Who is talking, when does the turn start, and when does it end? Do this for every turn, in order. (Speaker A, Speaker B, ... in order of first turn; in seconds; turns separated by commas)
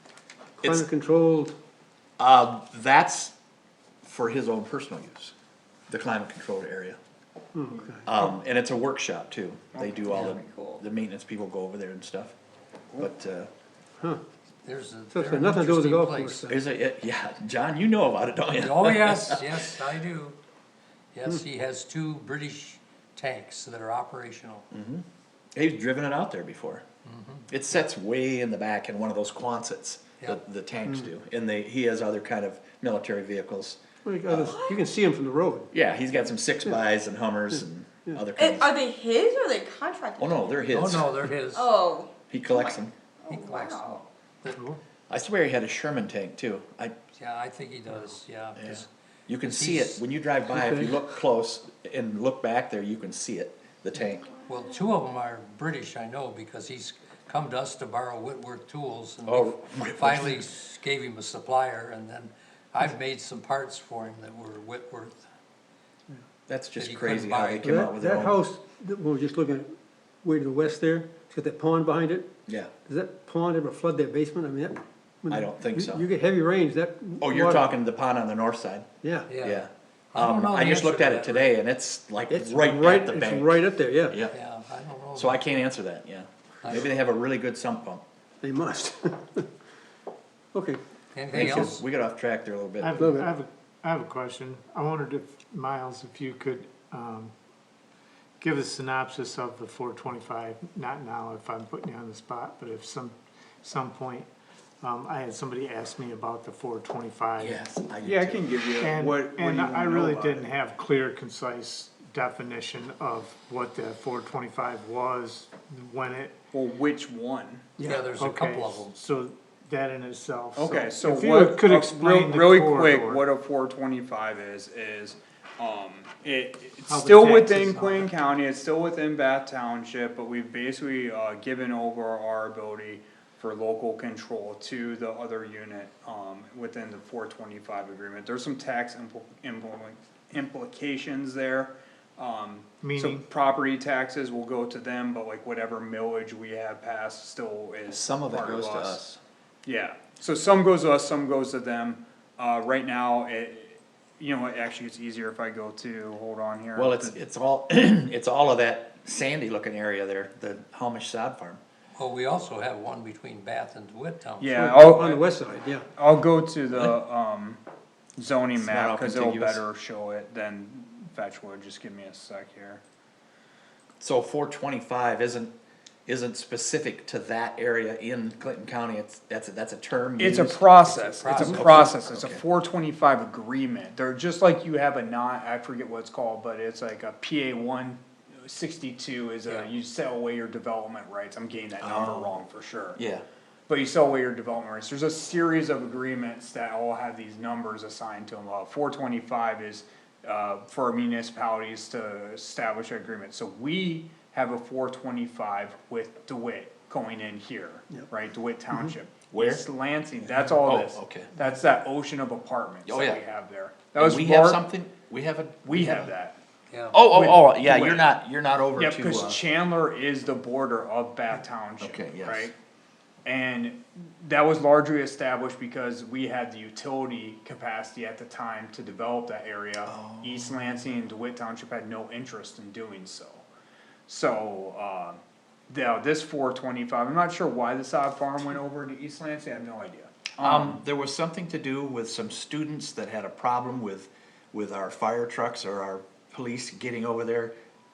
Speaker A: 0.6-1.6, Speaker B: 0.6-0.9, Speaker B: 2.2-3.3, Speaker B: 4.0-5.3, Speaker B: 5.9-7.0, Speaker A: 7.5-8.3, Speaker B: 8.1-12.3, Speaker C: 9.8-10.7, Speaker B: 13.0-13.5, Speaker D: 14.6-16.4, Speaker A: 15.1-16.6, Speaker B: 16.5-19.6, Speaker D: 18.6-20.4, Speaker D: 21.1-24.7, Speaker B: 24.7-25.1, Speaker B: 25.6-26.8, Speaker D: 27.1-27.5, Speaker B: 27.5-34.6, Speaker A: 34.0-35.7, Speaker E: 34.4-34.8, Speaker B: 35.7-38.7, Speaker E: 38.4-40.7, Speaker B: 40.2-41.1, Speaker D: 40.7-41.7, Speaker E: 41.5-44.0, Speaker B: 42.3-42.9, Speaker D: 43.3-44.8, Speaker B: 45.1-46.9, Speaker D: 47.2-48.9, Speaker B: 48.6-54.3, Speaker D: 49.5-50.0, Speaker A: 50.5-51.0, Speaker E: 54.1-54.9, Speaker D: 54.5-65.2, Speaker B: 59.3-60.5, Speaker B: 66.5-68.4, Speaker D: 66.8-67.7, Speaker A: 67.6-69.7, Speaker A: 70.2-72.3, Speaker A: 72.9-77.7, Speaker B: 75.3-76.0, Speaker B: 77.2-84.3, Speaker A: 79.0-79.3, Speaker D: 79.3-81.5, Speaker A: 82.3-84.2, Speaker D: 84.3-85.4, Speaker B: 85.1-88.0, Speaker D: 86.6-86.9, Speaker A: 88.4-89.5, Speaker A: 90.5-90.8, Speaker D: 91.2-91.8, Speaker B: 91.3-92.9, Speaker A: 91.3-91.8, Speaker F: 92.8-97.3, Speaker A: 93.0-93.3, Speaker F: 98.4-104.3, Speaker F: 104.8-107.6, Speaker B: 107.4-108.6, Speaker C: 108.0-110.5, Speaker F: 108.8-116.4, Speaker C: 116.5-117.7, Speaker A: 117.8-118.1, Speaker D: 117.8-119.0, Speaker F: 118.2-123.2, Speaker C: 120.6-149.0, Speaker F: 126.9-128.1, Speaker F: 142.8-143.2, Speaker B: 147.9-149.2, Speaker C: 149.7-157.1, Speaker B: 156.8-161.6, Speaker D: 162.0-164.5, Speaker C: 164.4-165.3, Speaker A: 164.5-165.9, Speaker C: 166.0-167.6, Speaker C: 168.2-172.8, Speaker B: 168.6-169.6, Speaker B: 174.0-175.5, Speaker B: 176.1-180.7, Speaker C: 180.2-193.0, Speaker D: 180.8-181.9, Speaker B: 181.3-182.4, Speaker B: 191.8-192.4, Speaker B: 193.0-193.2, Speaker C: 193.7-214.6, Speaker B: 209.3-209.6, Speaker B: 210.5-211.3, Speaker B: 212.9-213.2, Speaker B: 213.9-216.1, Speaker C: 215.7-216.4, Speaker D: 216.7-217.0, Speaker B: 216.9-219.4, Speaker C: 217.1-218.1, Speaker C: 218.8-222.5, Speaker B: 221.8-222.5, Speaker C: 223.2-233.4, Speaker B: 229.8-230.7, Speaker C: 234.1-240.8, Speaker B: 240.4-247.5